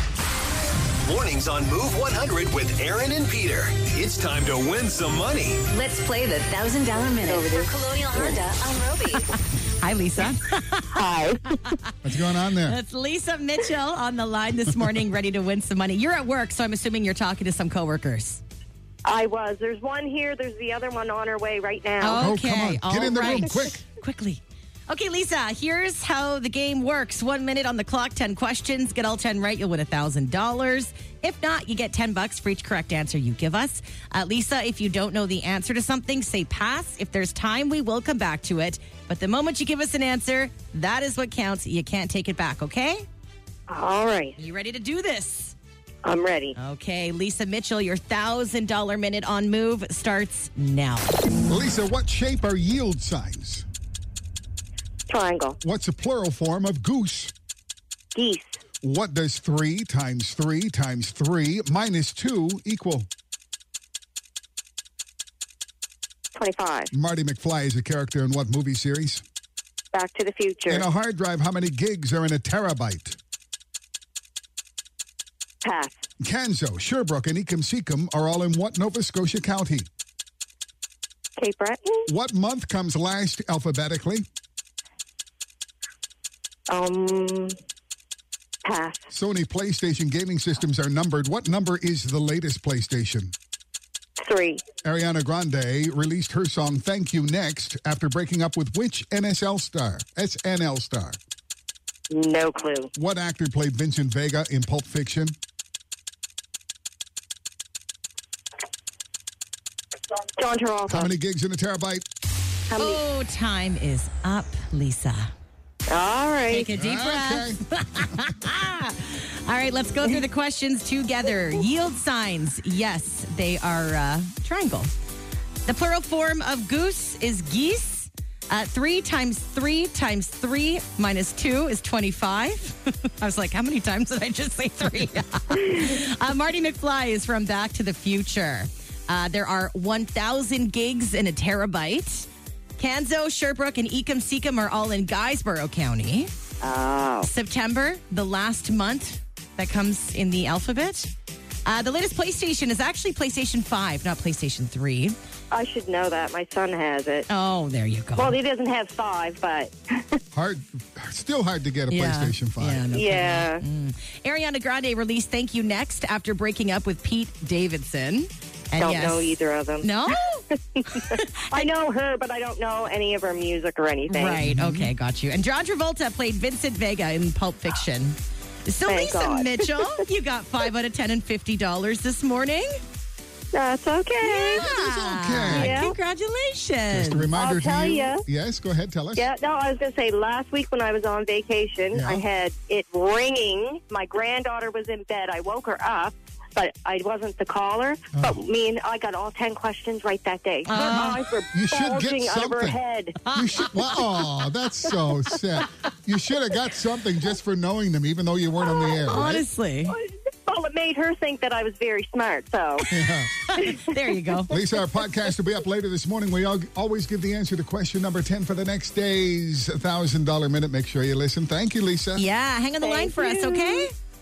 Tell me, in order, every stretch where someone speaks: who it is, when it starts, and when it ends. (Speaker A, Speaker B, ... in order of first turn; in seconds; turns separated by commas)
Speaker A: 1.1-5.6, Speaker B: 5.7-9.3, Speaker C: 7.3-7.7, Speaker D: 9.8-11.9, Speaker E: 12.0-12.8, Speaker D: 12.7-18.4, Speaker C: 19.1-22.3, Speaker D: 22.0-43.0, Speaker E: 22.1-23.8, Speaker C: 43.7-44.3, Speaker D: 44.4-45.6, Speaker C: 46.0-46.5, Speaker D: 46.6-51.1, Speaker E: 51.5-53.7, Speaker C: 55.1-55.6, Speaker E: 55.6-57.3, Speaker C: 58.1-58.6, Speaker E: 58.8-63.1, Speaker C: 66.3-66.9, Speaker E: 66.9-69.2, Speaker C: 69.9-70.9, Speaker E: 70.7-73.2, Speaker C: 75.6-76.0, Speaker E: 76.2-79.9, Speaker C: 81.4-82.1, Speaker E: 82.1-84.3, Speaker C: 86.7-87.6, Speaker C: 88.7-89.0, Speaker E: 89.1-93.3, Speaker C: 94.2-94.6, Speaker E: 94.8-101.2, Speaker C: 102.1-102.9, Speaker E: 103.0-105.4, Speaker C: 110.4-111.1, Speaker E: 110.9-112.1, Speaker C: 112.7-113.0, Speaker D: 112.8-115.3, Speaker C: 115.9-116.7, Speaker D: 116.5-124.9, Speaker E: 116.8-117.6, Speaker D: 125.7-146.3, Speaker C: 146.6-147.3, Speaker D: 147.2-151.1, Speaker D: 151.7-155.2, Speaker C: 155.5-157.3, Speaker D: 157.3-158.4, Speaker C: 158.2-160.0, Speaker E: 160.3-162.9, Speaker D: 161.9-170.4, Speaker C: 162.9-163.6, Speaker C: 168.8-174.4, Speaker D: 171.1-171.7, Speaker D: 174.1-182.8, Speaker E: 174.4-174.9, Speaker C: 178.9-180.0, Speaker C: 183.5-184.7, Speaker D: 184.2-187.3, Speaker E: 184.7-185.8, Speaker C: 185.5-186.0, Speaker E: 186.9-189.3, Speaker C: 187.3-188.2, Speaker C: 189.2-203.2, Speaker E: 191.9-192.2, Speaker D: 200.7-201.2, Speaker E: 201.5-202.8, Speaker D: 203.3-204.0, Speaker E: 203.3-209.5, Speaker C: 208.6-209.2, Speaker D: 209.1-209.9, Speaker C: 209.9-212.9, Speaker E: 212.9-213.3, Speaker D: 213.5-214.5, Speaker C: 213.6-214.0, Speaker E: 214.5-222.2, Speaker C: 214.5-215.2, Speaker D: 222.2-223.9, Speaker C: 222.8-223.9